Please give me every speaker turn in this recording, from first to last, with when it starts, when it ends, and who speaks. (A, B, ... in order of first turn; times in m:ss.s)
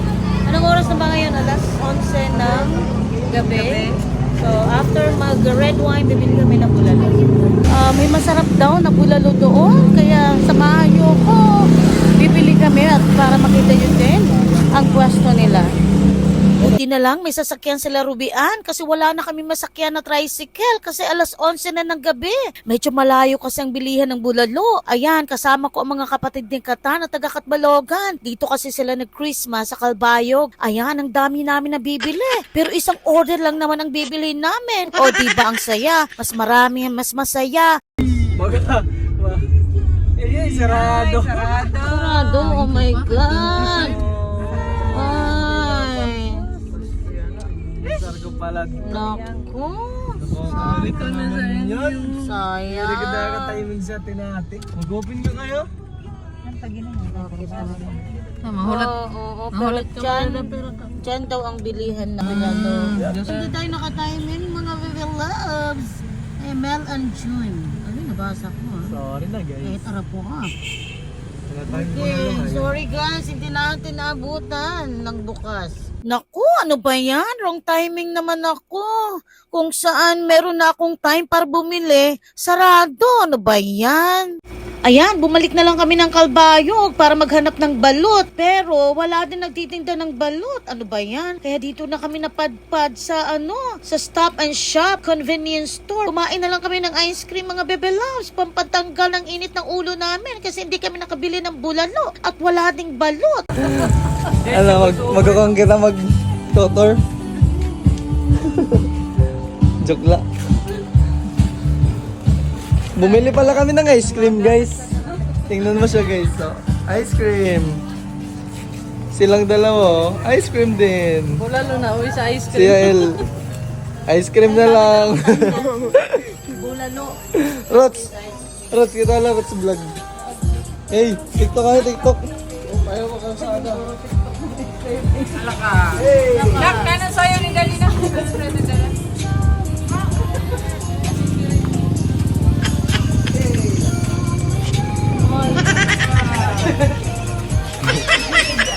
0:00.4-0:15.7 A
0:16.6-0:37.8 A
0:38.1-0:39.5 B
0:40.2-0:41.8 B
0:40.5-0:42.5 C
0:41.7-0:44.0 A
0:43.7-0:45.8 B
0:44.8-0:46.5 A
0:46.9-0:49.0 B
0:48.8-0:51.0 A
0:50.2-0:55.7 B
0:50.7-0:52.1 C
0:52.0-0:53.7 A
0:56.4-0:58.0 A
0:58.4-0:58.8 C
0:58.6-1:08.9 A
0:59.7-1:00.5 C
1:03.0-1:03.3 B
1:08.9-1:09.8 B
1:09.6-1:10.5 A
1:11.5-1:12.8 B
1:11.7-1:19.0 A
1:19.5-1:24.3 A
1:24.8-1:43.7 A
1:43.7-1:47.0 B
1:44.5-1:45.3 C
1:48.3-1:48.9 B
1:49.8-1:50.2 B
1:52.9-1:57.8 B
1:59.1-2:01.4 B
2:01.4-2:03.1 C
2:02.5-2:03.2 B
2:04.1-2:06.4 B
2:04.7-2:05.7 A
2:06.4-2:07.2 A
2:07.3-2:08.1 B
2:08.0-2:08.7 A
2:08.7-2:10.0 B
2:10.9-2:13.8 B
2:13.4-2:15.5 A
2:15.3-2:18.9 C
2:15.9-2:16.9 B
2:16.2-2:16.9 A
2:23.3-2:23.8 B
2:25.2-2:25.7 A
2:26.1-2:26.7 C